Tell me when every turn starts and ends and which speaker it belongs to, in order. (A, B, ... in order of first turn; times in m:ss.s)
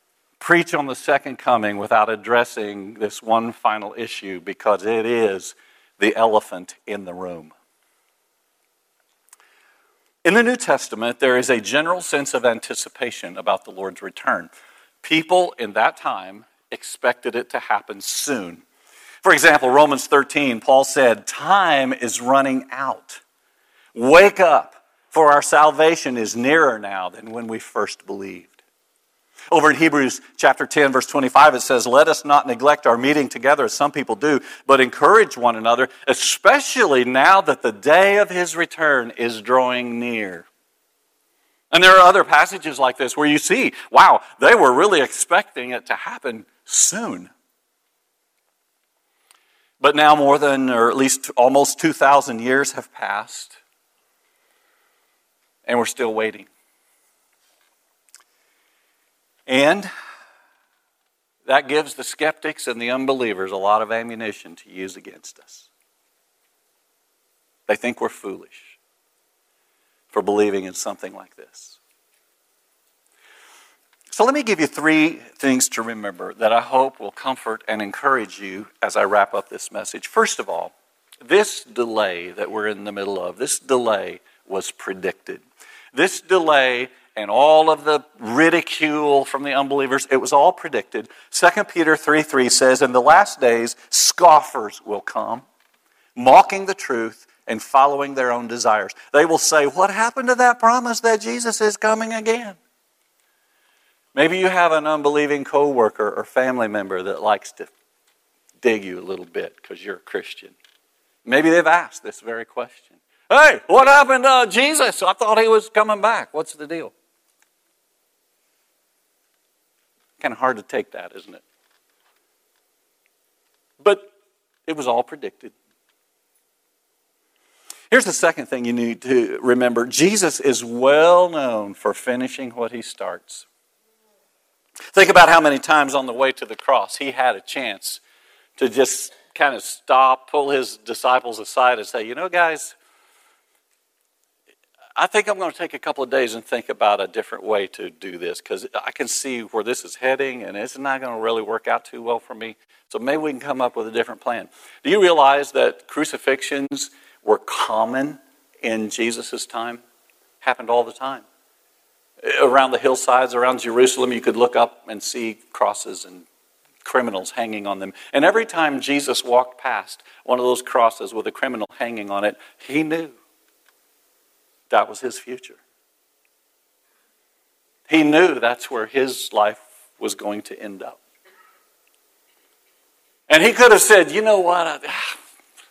0:00.4-0:07.5 A
0:10.2-0:14.5 A
0:15.0-0:18.6 A
0:19.2-0:23.2 A
0:23.9-0:28.5 A
0:29.5-0:40.5 A
0:41.7-0:47.3 A
0:49.8-0:53.6 A
0:55.6-0:56.5 A
0:59.5-0:59.9 A
1:01.4-1:05.7 A
1:07.7-1:08.8 A
1:10.1-1:11.8 A
1:14.1-1:35.4 A
1:36.2-1:42.6 A
1:44.1-1:47.7 A
1:48.6-1:50.6 A
1:51.2-1:56.9 A
2:00.2-2:01.4 A
2:03.8-2:04.1 A
2:04.7-2:05.5 A
2:07.9-2:13.4 A
2:14.9-2:18.0 A
2:18.6-2:22.8 A
2:25.0-2:39.8 A
2:40.4-2:41.2 A
2:42.2-2:46.3 A
2:46.8-2:53.2 A
2:54.7-2:55.6 A
2:57.9-3:01.0 A
3:03.3-3:05.2 A